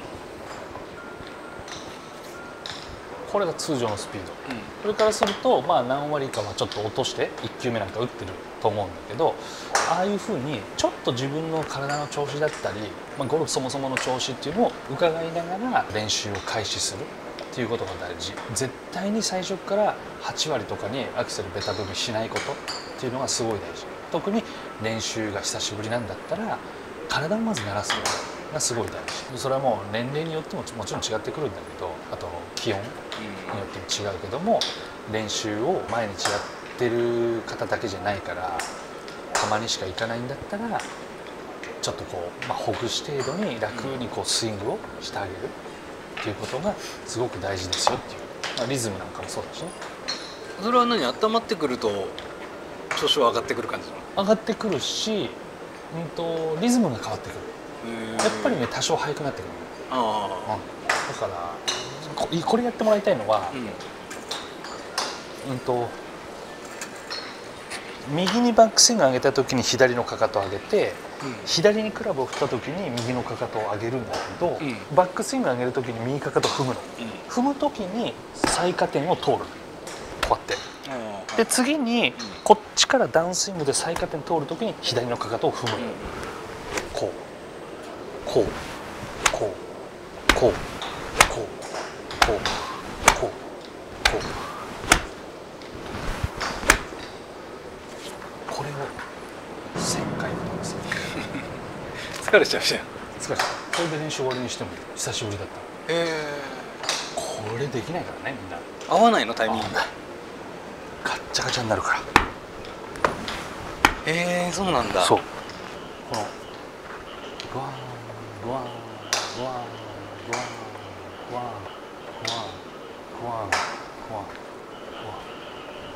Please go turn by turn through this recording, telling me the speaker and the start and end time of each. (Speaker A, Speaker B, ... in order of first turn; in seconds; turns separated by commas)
Speaker A: 3.3-33.0, Speaker B: 4.5-4.7, Speaker B: 33.2-33.7, Speaker A: 33.5-38.7, Speaker A: 39.3-40.9, Speaker A: 41.8-45.5, Speaker B: 43.7-44.0, Speaker A: 46.2-49.8, Speaker B: 50.6-52.2, Speaker B: 52.9-54.1, Speaker A: 54.1-55.4, Speaker A: 55.9-57.5, Speaker B: 57.8-58.7, Speaker A: 58.2-59.7, Speaker B: 59.9-60.6, Speaker A: 60.5-63.6, Speaker B: 63.5-63.8, Speaker A: 65.4-66.0, Speaker A: 68.0-79.6, Speaker B: 71.2-71.5, Speaker B: 74.6-74.9, Speaker B: 77.0-77.2, Speaker A: 80.2-80.6, Speaker B: 80.8-81.5, Speaker A: 81.4-86.0, Speaker B: 85.8-86.2, Speaker A: 86.9-87.2, Speaker A: 88.2-88.6, Speaker A: 89.3-89.6, Speaker A: 90.3-90.6, Speaker A: 91.3-91.6, Speaker A: 92.2-93.4, Speaker A: 94.0-94.4, Speaker A: 98.5-99.0, Speaker A: 99.8-101.2, Speaker B: 101.1-102.9, Speaker A: 103.2-105.7, Speaker B: 105.9-106.8, Speaker A: 107.1-108.7, Speaker B: 108.9-109.8, Speaker A: 109.5-109.9, Speaker A: 111.0-112.1, Speaker B: 114.0-115.2, Speaker A: 115.0-115.3, Speaker A: 116.0-116.4, Speaker A: 117.4-124.4, Speaker A: 125.0-125.2